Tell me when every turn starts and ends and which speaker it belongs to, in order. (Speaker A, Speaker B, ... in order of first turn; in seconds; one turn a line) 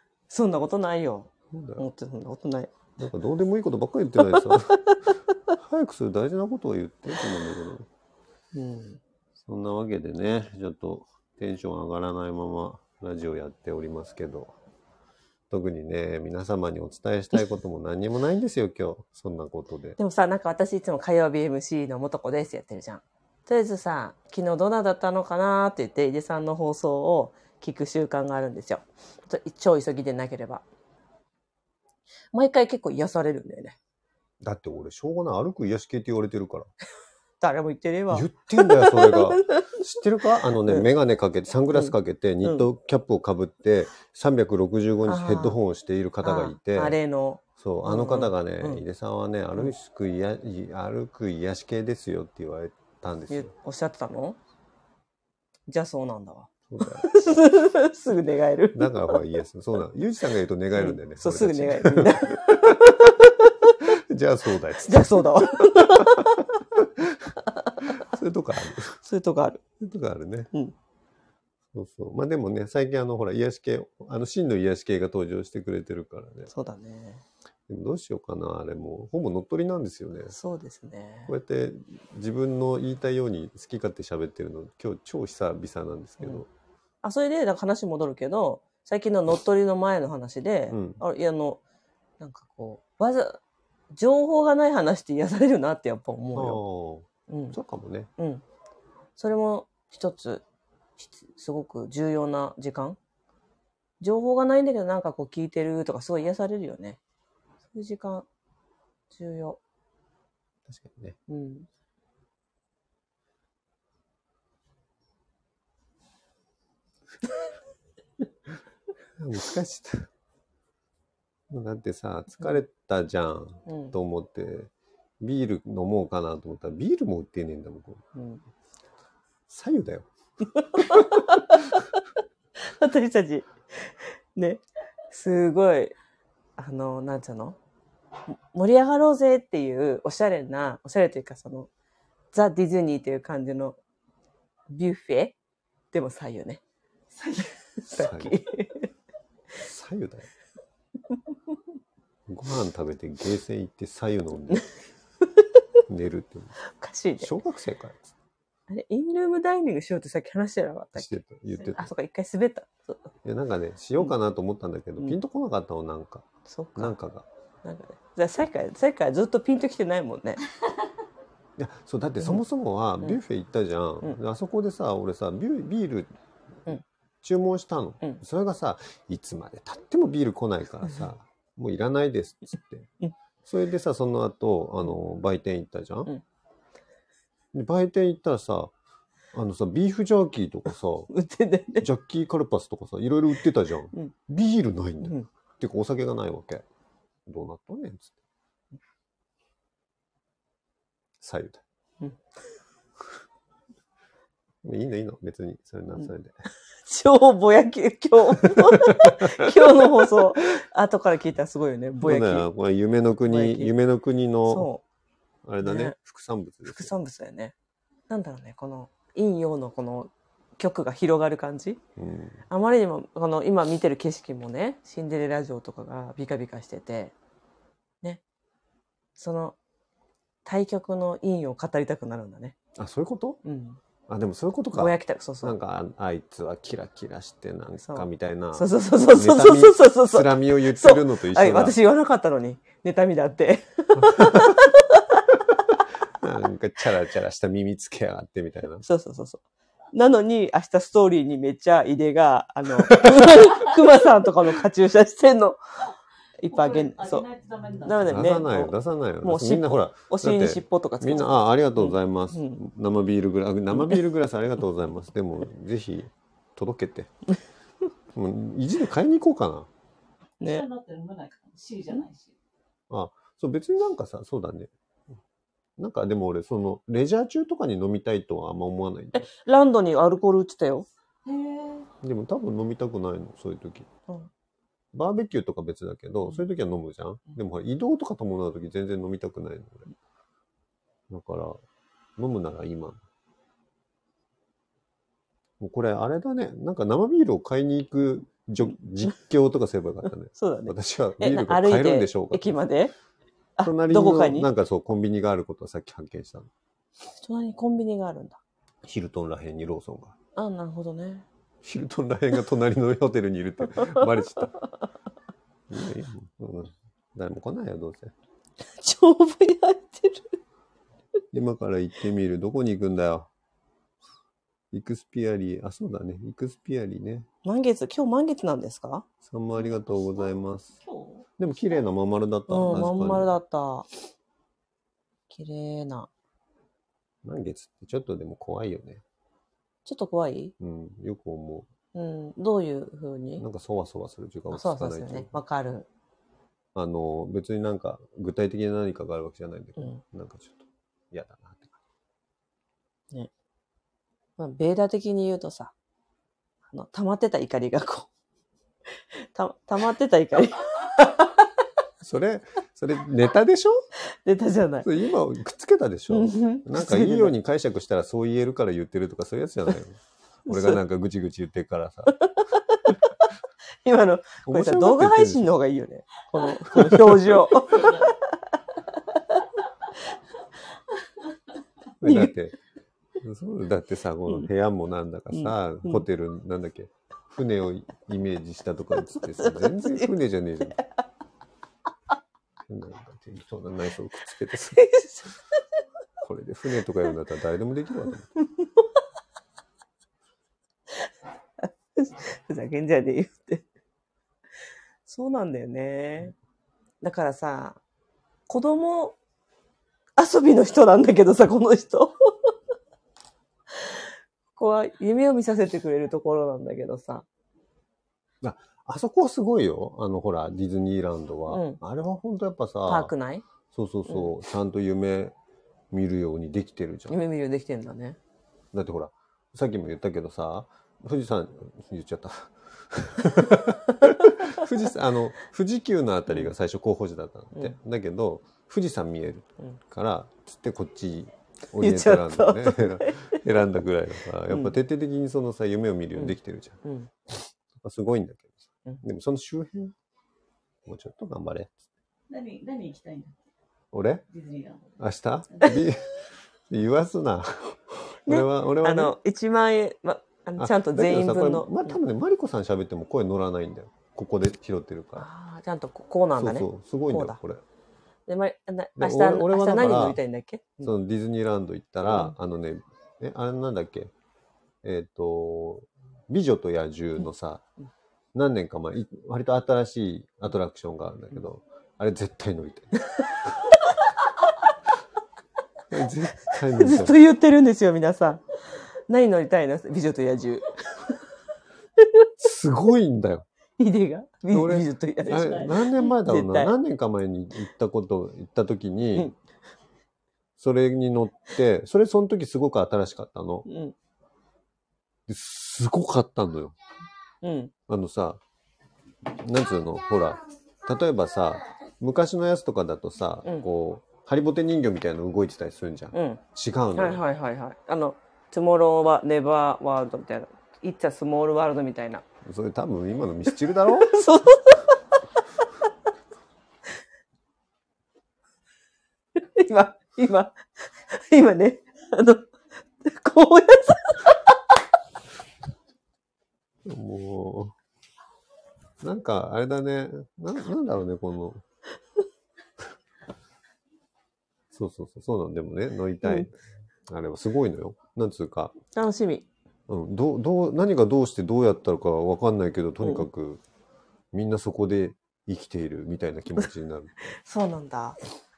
Speaker A: 0.3-2.7
Speaker B: 1.5-1.8
Speaker B: 3.0-4.9
Speaker A: 4.3-5.1
Speaker B: 5.5-7.9
Speaker A: 8.5-9.0
Speaker B: 9.4-14.5
Speaker B: 15.5-20.0
Speaker A: 20.0-30.6
Speaker A: 32.3-33.8
Speaker B: 34.4-36.7
Speaker A: 37.4-39.7
Speaker B: 38.1-47.0
Speaker A: 40.6-40.9
Speaker A: 41.7-42.7
Speaker A: 45.0-45.6
Speaker A: 46.2-48.8
Speaker B: 47.6-53.5
Speaker A: 53.3-54.4
Speaker A: 55.7-59.2
Speaker B: 56.7-57.4
Speaker B: 58.7-63.2
Speaker A: 60.8-63.7
Speaker B: 63.8-69.0
Speaker A: 64.8-66.5
Speaker A: 67.6-67.9
Speaker A: 69.0-69.6
Speaker B: 69.8-70.5
Speaker B: 71.7-76.5
Speaker A: 76.5-77.2
Speaker B: 77.7-80.3
Speaker A: 80.3-81.3
Speaker B: 81.3-86.5
Speaker A: 87.0-91.6
Speaker B: 90.7-91.0
Speaker A: 92.2-93.4
Speaker A: 93.9-96.6
Speaker B: 96.3-98.1
Speaker A: 97.3-97.6
Speaker A: 98.2-98.4
Speaker A: 99.2-100.4
Speaker A: 101.0-103.0
Speaker A: 104.0-107.0
Speaker A: 107.7-108.2
Speaker A: 109.1-109.6
Speaker B: 110.7-111.2
Speaker A: 111.3-111.7
Speaker B: 119.2-120.1
Speaker B: 121.5-128.0
Speaker A: 123.7-123.9
Speaker A: 128.1-128.4
Speaker B: 129.5-130.1
Speaker A: 130.5-131.8
Speaker B: 130.7-131.6
Speaker A: 132.6-135.9
Speaker A: 136.6-137.6
Speaker A: 138.3-141.7
Speaker A: 142.3-143.8
Speaker A: 144.7-145.3
Speaker A: 145.9-146.6
Speaker A: 147.2-148.9
Speaker B: 147.9-148.4
Speaker B: 149.6-150.3
Speaker B: 152.3-154.7
Speaker B: 155.9-156.5
Speaker A: 156.8-157.3
Speaker B: 157.2-158.1
Speaker A: 158.7-163.1
Speaker B: 160.9-161.9
Speaker B: 163.2-167.3
Speaker A: 166.5-166.9
Speaker A: 167.6-170.4
Speaker B: 171.6-176.1
Speaker B: 177.2-182.9
Speaker B: 183.4-186.1
Speaker B: 187.5-188.7
Speaker B: 189.3-191.1
Speaker A: 191.1-191.9
Speaker B: 191.8-196.6
Speaker A: 195.0-195.3
Speaker B: 197.3-198.1
Speaker B: 201.2-201.6
Speaker B: 204.6-206.3
Speaker A: 206.8-212.5
Speaker B: 208.4-209.8
Speaker B: 212.0-214.7
Speaker A: 213.3-213.7
Speaker A: 214.5-214.8
Speaker B: 215.4-216.9
Speaker A: 215.6-215.9
Speaker A: 216.7-217.5
Speaker A: 218.1-221.8
Speaker B: 222.0-222.4
Speaker A: 222.5-227.1
Speaker A: 229.2-229.6
Speaker A: 230.4-232.6
Speaker B: 232.8-233.4
Speaker A: 233.4-233.8
Speaker B: 234.1-241.8
Speaker A: 234.7-235.5
Speaker A: 237.8-245.3
Speaker B: 244.0-244.7
Speaker B: 246.1-248.8
Speaker A: 248.8-249.4
Speaker A: 249.9-255.6
Speaker B: 252.9-253.3
Speaker A: 256.4-257.2
Speaker C: 256.5-258.3
Speaker A: 257.8-262.6
Speaker B: 258.1-267.1
Speaker B: 268.1-269.7
Speaker C: 270.4-272.3
Speaker B: 272.9-274.7
Speaker B: 275.8-279.2
Speaker A: 279.1-280.9
Speaker C: 281.2-281.9
Speaker B: 282.0-283.9
Speaker B: 284.9-289.9
Speaker B: 291.1-291.6
Speaker B: 292.2-293.0
Speaker B: 295.6-302.6
Speaker A: 300.3-302.9
Speaker A: 303.6-304.5
Speaker B: 303.6-306.5
Speaker A: 307.1-308.4
Speaker B: 308.8-310.1
Speaker A: 310.4-311.2
Speaker B: 311.6-314.5
Speaker B: 315.7-318.1
Speaker A: 318.8-320.3
Speaker B: 321.3-323.3
Speaker B: 324.7-327.3
Speaker A: 327.4-329.1
Speaker B: 329.2-330.7
Speaker C: 330.8-331.2
Speaker B: 331.4-333.3
Speaker A: 332.5-333.9
Speaker A: 335.3-336.1
Speaker B: 337.2-339.0
Speaker A: 339.8-340.5
Speaker B: 340.6-341.7
Speaker A: 341.9-343.4
Speaker B: 343.4-345.3
Speaker A: 344.5-345.9
Speaker B: 346.7-351.8
Speaker A: 354.4-355.7
Speaker A: 356.7-358.1
Speaker A: 359.3-361.5
Speaker B: 362.0-363.8
Speaker A: 364.1-364.9
Speaker B: 364.8-372.2
Speaker A: 366.1-367.3
Speaker A: 370.5-370.8
Speaker A: 372.1-373.1
Speaker A: 373.8-379.4
Speaker B: 374.4-375.5
Speaker B: 376.7-377.5
Speaker C: 377.7-378.1
Speaker B: 382.0-382.6
Speaker A: 382.0-382.3
Speaker B: 383.2-390.8
Speaker A: 385.3-386.0
Speaker A: 389.2-390.1
Speaker B: 392.7-394.9
Speaker A: 394.7-395.3
Speaker B: 396.2-398.3
Speaker A: 398.4-398.8
Speaker A: 401.6-403.6
Speaker A: 405.1-406.3
Speaker A: 407.0-407.8
Speaker A: 408.5-409.1
Speaker A: 410.2-412.5
Speaker A: 414.6-417.2
Speaker B: 418.4-423.1
Speaker A: 421.5-421.8
Speaker A: 422.9-423.4
Speaker B: 423.7-425.3
Speaker B: 425.9-427.2
Speaker A: 427.1-428.2
Speaker B: 428.7-446.8
Speaker A: 434.1-434.6
Speaker A: 441.8-443.4
Speaker A: 444.5-444.7
Speaker A: 446.1-447.1
Speaker B: 447.7-449.9
Speaker B: 450.8-451.8
Speaker C: 452.3-453.4
Speaker B: 453.9-454.2
Speaker C: 454.3-455.0
Speaker B: 455.0-459.1
Speaker C: 455.5-455.8
Speaker A: 458.3-461.8
Speaker B: 460.6-465.3
Speaker A: 465.2-467.4
Speaker B: 466.4-467.6
Speaker A: 468.3-470.9
Speaker B: 469.0-470.2
Speaker B: 470.8-474.1
Speaker B: 474.8-477.6
Speaker B: 478.3-483.3
Speaker B: 485.9-487.2
Speaker A: 486.5-488.4
Speaker A: 489.1-491.2
Speaker A: 492.0-492.3
Speaker B: 492.4-493.4
Speaker A: 493.8-496.7
Speaker B: 494.5-499.3
Speaker C: 495.3-495.8
Speaker B: 500.6-503.6
Speaker A: 503.6-503.9
Speaker B: 505.3-506.8
Speaker A: 507.4-507.7
Speaker B: 507.9-508.4
Speaker B: 509.3-517.2
Speaker A: 516.1-516.4
Speaker A: 516.9-522.2
Speaker B: 522.4-524.2
Speaker A: 524.0-525.2
Speaker A: 529.4-534.5
Speaker B: 536.8-537.7
Speaker B: 539.0-541.6
Speaker B: 544.7-546.5
Speaker B: 547.1-548.7
Speaker A: 548.9-549.5
Speaker B: 549.9-553.6
Speaker B: 554.3-557.1
Speaker A: 557.3-558.2